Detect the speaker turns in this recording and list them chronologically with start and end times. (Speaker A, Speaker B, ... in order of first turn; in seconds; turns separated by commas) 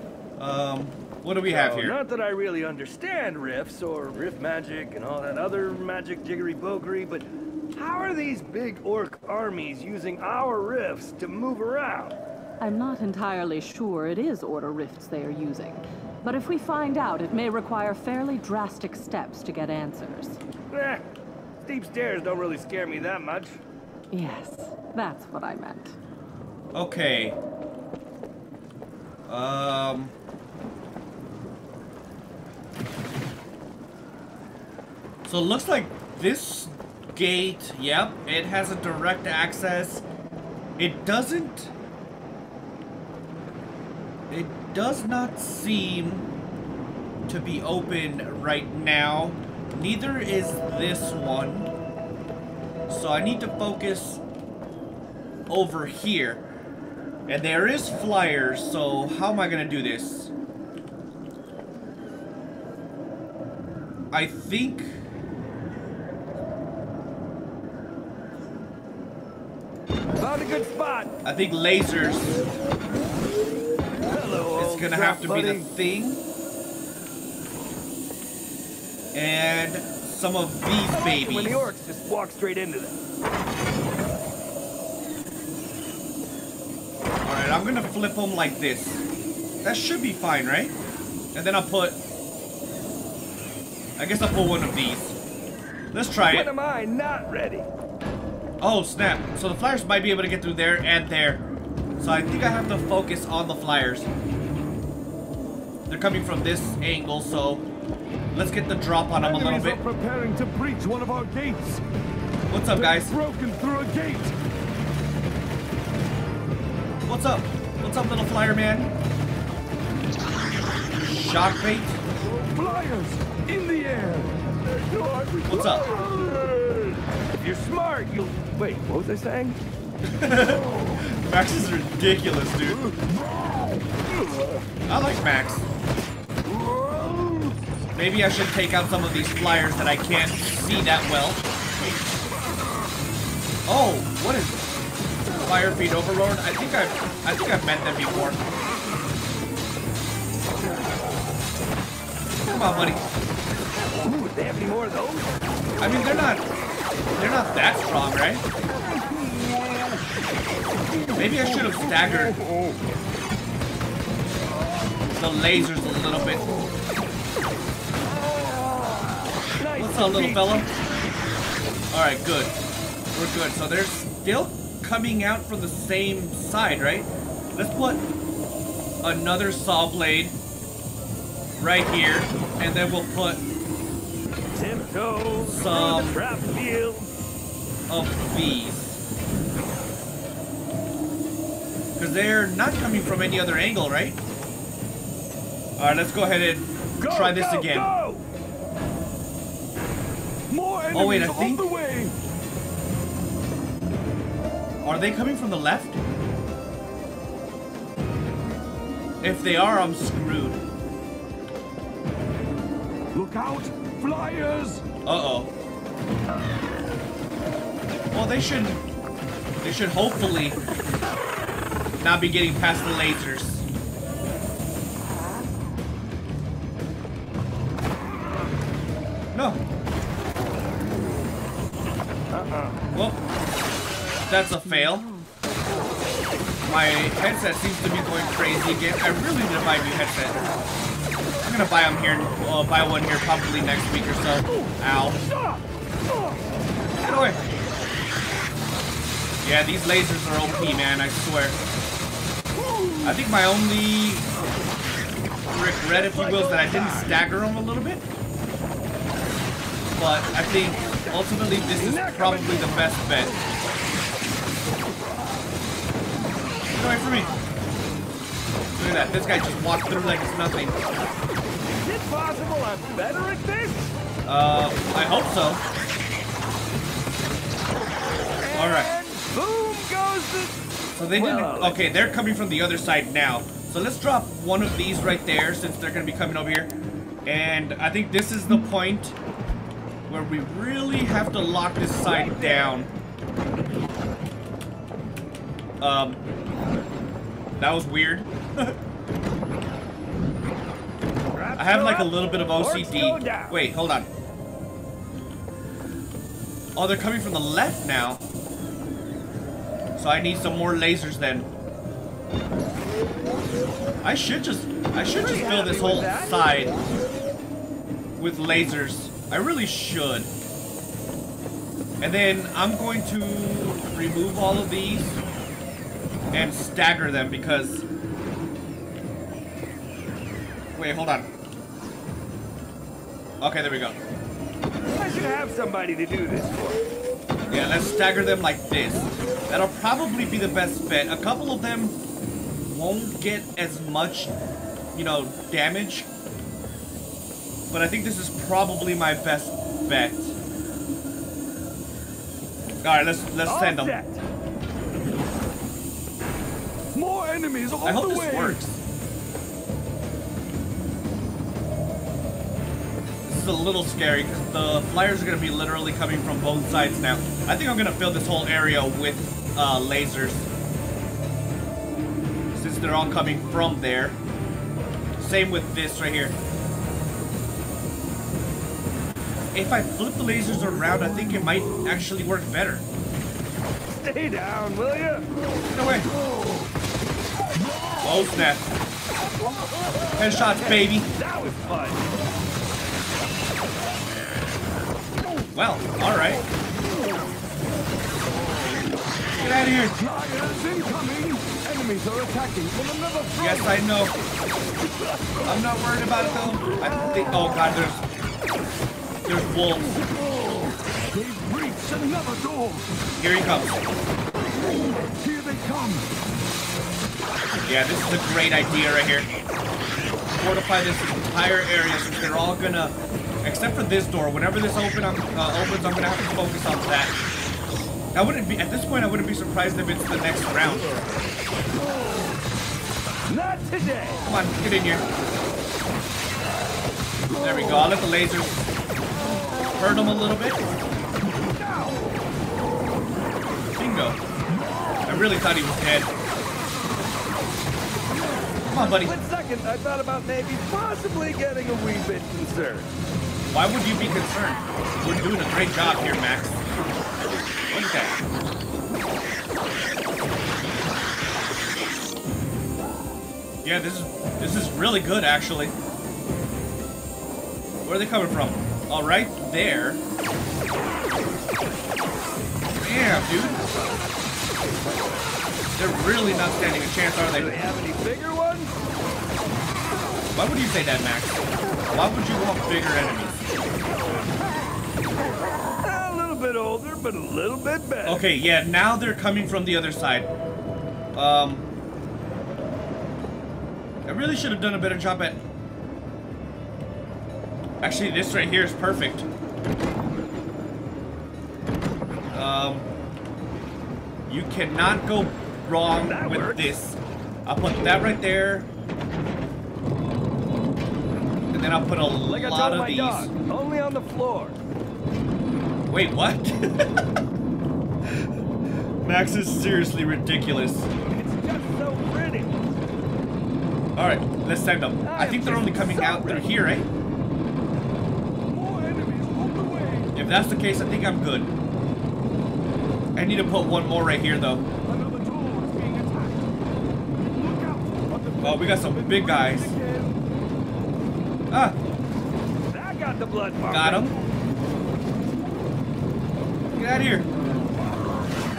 Speaker A: 0.4-2.0, Speaker B: 1.4-12.2, Speaker C: 12.6-20.4, Speaker B: 20.7-21.0, Speaker B: 21.6-23.6, Speaker C: 24.1-26.0, Speaker A: 26.7-27.4, Speaker A: 29.3-30.1, Speaker A: 35.2-40.0, Speaker A: 40.8-41.7, Speaker A: 44.3-46.3, Speaker A: 47.3-51.7, Speaker A: 52.9-54.2, Speaker A: 55.5-56.5, Speaker A: 57.3-60.3, Speaker A: 64.1-65.0, Speaker B: 70.2-71.1, Speaker A: 71.2-72.4, Speaker B: 74.1-75.7, Speaker A: 74.5-76.2, Speaker A: 79.1-81.7, Speaker B: 80.9-83.0, Speaker A: 87.2-89.0, Speaker A: 89.6-90.8, Speaker A: 91.3-92.0, Speaker A: 94.0-95.2, Speaker A: 95.9-96.5, Speaker B: 96.3-97.7, Speaker A: 98.6-101.4, Speaker A: 102.0-104.1, Speaker A: 105.9-107.7, Speaker A: 108.3-109.8, Speaker D: 109.2-111.8, Speaker A: 112.5-113.2, Speaker D: 112.8-114.3, Speaker A: 117.1-118.9, Speaker A: 121.0-122.0, Speaker D: 122.4-124.4, Speaker D: 124.9-126.2, Speaker A: 125.5-126.0, Speaker B: 126.2-126.8, Speaker B: 127.4-129.6, Speaker A: 130.1-132.9, Speaker A: 134.9-135.7, Speaker A: 137.9-141.4, Speaker A: 143.7-144.7, Speaker A: 145.3-148.4, Speaker A: 152.5-153.1, Speaker B: 154.0-155.3, Speaker A: 155.8-156.4, Speaker A: 157.1-158.4, Speaker A: 161.2-162.4, Speaker A: 165.1-166.5, Speaker B: 169.6-170.6, Speaker A: 169.8-170.7, Speaker A: 171.9-172.6, Speaker A: 173.1-178.0, Speaker A: 179.0-180.4, Speaker A: 181.6-183.4, Speaker B: 184.6-187.1, Speaker A: 185.5-186.2, Speaker A: 187.9-189.0, Speaker A: 192.0-194.2, Speaker A: 195.8-197.9, Speaker B: 197.0-198.3, Speaker D: 200.5-202.2, Speaker A: 200.9-201.7, Speaker A: 204.8-206.0, Speaker A: 209.2-210.6, Speaker D: 213.1-214.8, Speaker A: 215.1-215.5, Speaker A: 218.1-218.8, Speaker A: 219.6-220.6, Speaker A: 222.0-223.7, Speaker A: 229.3-229.6, Speaker B: 232.3-232.8, Speaker A: 232.9-233.2, Speaker A: 234.3-235.1, Speaker A: 236.6-240.4, Speaker A: 241.4-245.2, Speaker A: 247.0-247.4, Speaker A: 249.4-251.6, Speaker A: 253.0-254.3, Speaker A: 255.5-258.1, Speaker B: 255.9-257.2, Speaker A: 259.9-263.3, Speaker B: 260.8-261.2, Speaker B: 261.8-262.9, Speaker A: 266.7-267.4, Speaker A: 268.8-270.8, Speaker B: 271.8-273.9, Speaker A: 274.3-275.6, Speaker B: 278.4-281.9, Speaker A: 278.5-278.9, Speaker A: 280.9-286.7, Speaker A: 287.2-289.2, Speaker A: 290.1-292.9, Speaker B: 292.0-292.8, Speaker A: 295.8-296.2, Speaker A: 297.6-298.8, Speaker B: 301.3-303.6, Speaker A: 301.6-304.1, Speaker A: 306.8-308.2, Speaker A: 310.0-311.5, Speaker A: 314.0-316.8, Speaker B: 315.1-316.4, Speaker A: 318.2-320.3, Speaker A: 322.0-325.2, Speaker A: 326.3-327.9, Speaker A: 330.8-331.3, Speaker A: 333.4-334.0, Speaker B: 334.9-336.8, Speaker A: 337.5-342.0, Speaker A: 342.6-344.4, Speaker A: 344.9-346.1, Speaker A: 347.7-350.4, Speaker A: 352.8-354.0, Speaker B: 353.4-354.2, Speaker D: 356.9-358.6, Speaker A: 357.8-358.8, Speaker A: 363.3-370.5, Speaker A: 372.5-374.2, Speaker A: 375.2-376.4, Speaker A: 379.5-382.9, Speaker B: 383.9-385.3, Speaker A: 385.7-386.1, Speaker A: 388.0-388.7, Speaker A: 390.1-391.1, Speaker B: 390.5-392.1, Speaker A: 395.5-396.5, Speaker A: 399.4-400.0, Speaker D: 400.0-403.8, Speaker A: 403.4-404.1, Speaker A: 405.4-408.1, Speaker A: 409.2-410.0, Speaker D: 411.1-412.9, Speaker A: 413.1-413.8, Speaker D: 415.2-416.1, Speaker A: 417.6-419.3, Speaker A: 420.4-427.2, Speaker A: 428.1-431.0, Speaker B: 433.3-434.2, Speaker A: 434.3-435.1, Speaker A: 437.4-438.7, Speaker A: 439.7-440.7, Speaker A: 443.8-444.2, Speaker A: 445.1-446.1, Speaker A: 448.7-449.1, Speaker B: 448.7-452.9, Speaker A: 453.5-456.6, Speaker A: 457.7-458.2, Speaker A: 463.6-465.7, Speaker A: 467.8-470.0, Speaker A: 472.8-473.6, Speaker A: 475.8-477.6, Speaker B: 477.3-478.8, Speaker A: 480.3-483.5, Speaker B: 485.8-488.3, Speaker A: 488.1-490.3, Speaker A: 491.1-491.6, Speaker A: 494.1-495.4, Speaker A: 497.8-499.3, Speaker A: 502.3-502.9, Speaker A: 504.3-508.7, Speaker B: 506.0-506.8, Speaker A: 511.5-513.3, Speaker B: 512.3-514.6, Speaker A: 515.9-516.9, Speaker A: 519.0-520.9, Speaker B: 521.1-522.7, Speaker A: 524.0-526.9, Speaker B: 525.0-526.5, Speaker D: 528.5-530.1, Speaker A: 530.1-531.5, Speaker A: 533.1-534.7, Speaker D: 534.8-536.5, Speaker D: 537.3-540.2, Speaker A: 538.4-539.8, Speaker A: 541.5-541.8, Speaker B: 542.7-544.1, Speaker A: 543.7-544.2, Speaker A: 546.7-547.3